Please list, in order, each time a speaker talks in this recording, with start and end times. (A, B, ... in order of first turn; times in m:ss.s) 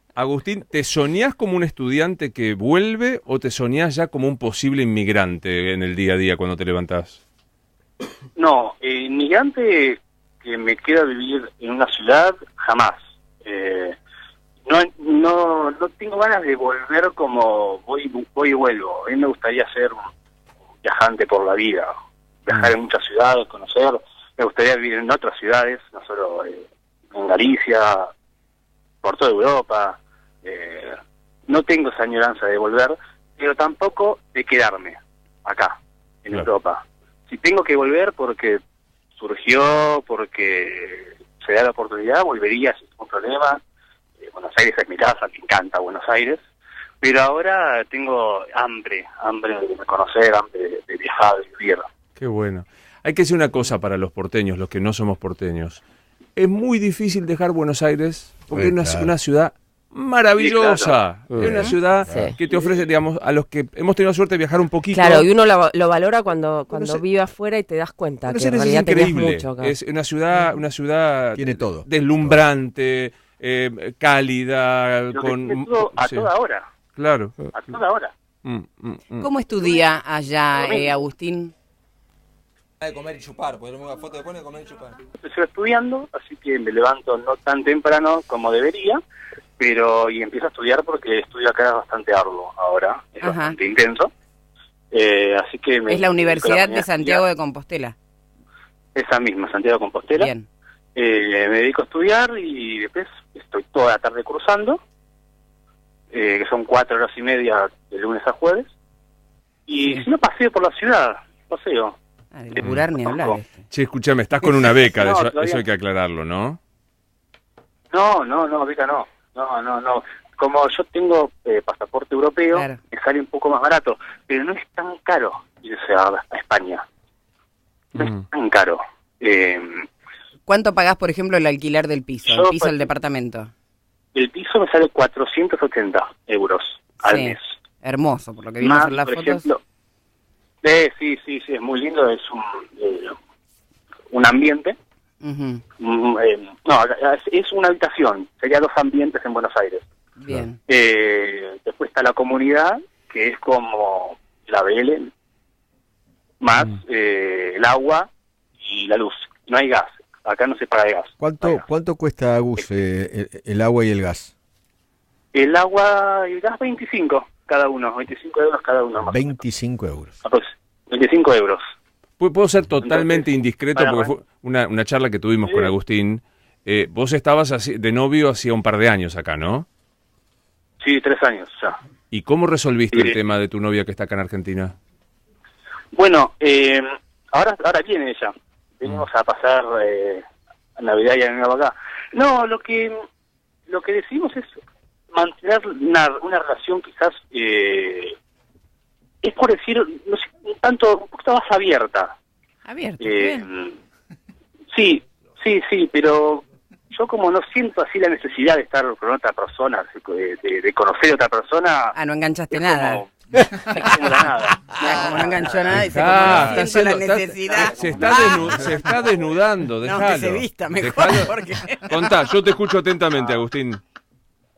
0:00.2-0:07.2 A
0:08.4-0:14.0 B
0:14.7-0:20.0 B
0:20.8-0:21.9 B
0:22.4-0:28.1 B
0:29.0-0:30.9 B
0:31.5-0:38.6 B
0:39.2-0:43.6 B
0:44.2-0:46.4 B
0:47.0-0:51.8 B
0:52.2-0:55.8 A
0:56.4-1:05.3 A
0:58.5-0:59.1 C
1:00.4-1:00.9 B
1:01.3-1:02.3 D
1:01.4-1:02.3 C
1:04.9-1:09.8 D
1:06.7-1:07.0 C
1:08.3-1:16.3 A
1:11.4-1:12.4 C
1:15.1-1:16.6 B
1:17.0-1:17.4 A
1:17.5-1:18.1 B
1:18.4-1:19.3 A
1:19.2-1:21.5 E
1:20.6-1:20.9 B
1:22.8-1:25.0 F
1:25.2-1:29.0 B
1:29.6-1:34.1 B
1:33.2-1:33.6 E
1:34.9-1:37.2 B
1:35.9-1:37.9 E
1:38.9-1:40.3 B
1:40.2-1:40.5 E
1:41.0-1:44.8 B
1:46.1-1:48.7 B
1:49.7-1:51.9 B
1:52.3-1:53.6 E
1:52.6-1:53.4 B
1:53.7-1:56.6 A
1:54.8-1:55.6 B
1:57.9-2:06.8 B
2:02.5-2:02.8 E
2:08.0-2:08.2 A
2:08.0-2:09.8 B
2:10.4-2:13.5 E
2:12.2-2:12.8 B
2:14.1-2:17.4 B
2:17.0-2:19.4 E
2:18.6-2:19.6 B
2:20.6-2:23.1 B
2:24.1-2:24.8 B
2:25.2-2:25.6 E
2:25.8-2:29.8 B
2:30.2-2:30.6 E
2:30.7-2:35.1 B
2:36.4-2:38.1 B
2:38.6-2:41.6 B
2:41.2-2:44.3 C
2:45.3-2:49.3 B
2:49.0-2:50.2 C
2:50.2-2:51.6 B
2:52.2-2:59.6 A
2:52.8-2:54.1 B
2:55.4-2:55.7 B
3:00.8-3:01.8 B
3:02.1-3:04.7 A
3:05.9-3:10.2 B
3:10.8-3:12.9 B
3:13.7-3:14.5 B
3:15.1-3:18.1 B
3:19.2-3:22.1 B
3:22.6-3:23.5 E
3:23.0-3:23.7 B
3:24.7-3:31.9 B
3:31.9-3:33.0 E
3:32.5-3:33.1 B
3:33.7-3:35.7 B
3:34.8-3:38.9 E
3:35.7-3:43.8 A
3:37.5-3:38.3 B
3:39.8-3:42.1 E
3:43.1-3:43.4 B